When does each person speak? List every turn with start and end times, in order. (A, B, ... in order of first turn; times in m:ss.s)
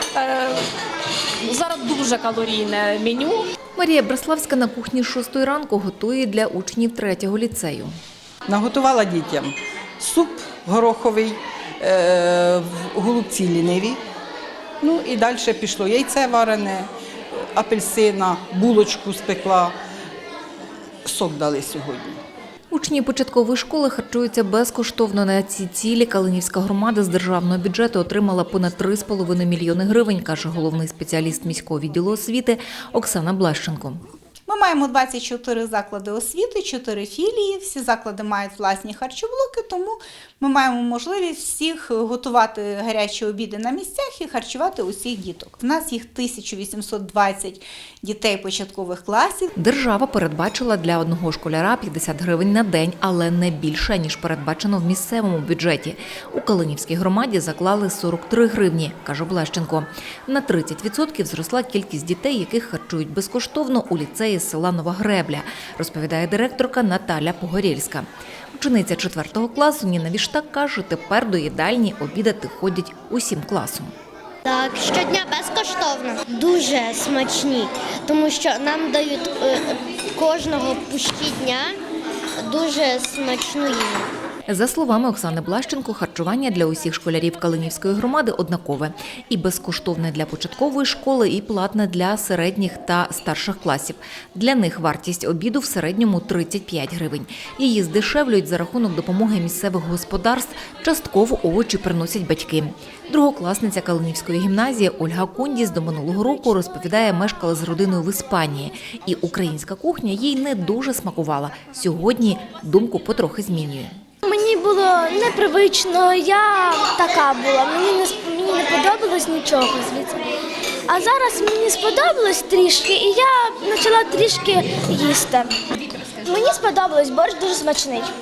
0:00.1-0:00.7 A
0:01.4-0:03.4 A
0:03.8-0:07.9 B
0:08.5-0:14.0 C
0:14.8-0:16.9 C
0:17.5-0:19.7 C
0:21.0-0:22.2 C
0:22.7-0:34.0 B
0:34.5-0:49.5 D
0:49.6-1:13.9 B
1:14.4-1:21.8 E
1:22.4-1:24.1 E
1:24.5-1:54.0 B
1:54.2-2:00.2 F
2:00.9-2:05.5 F
2:06.2-2:08.1 F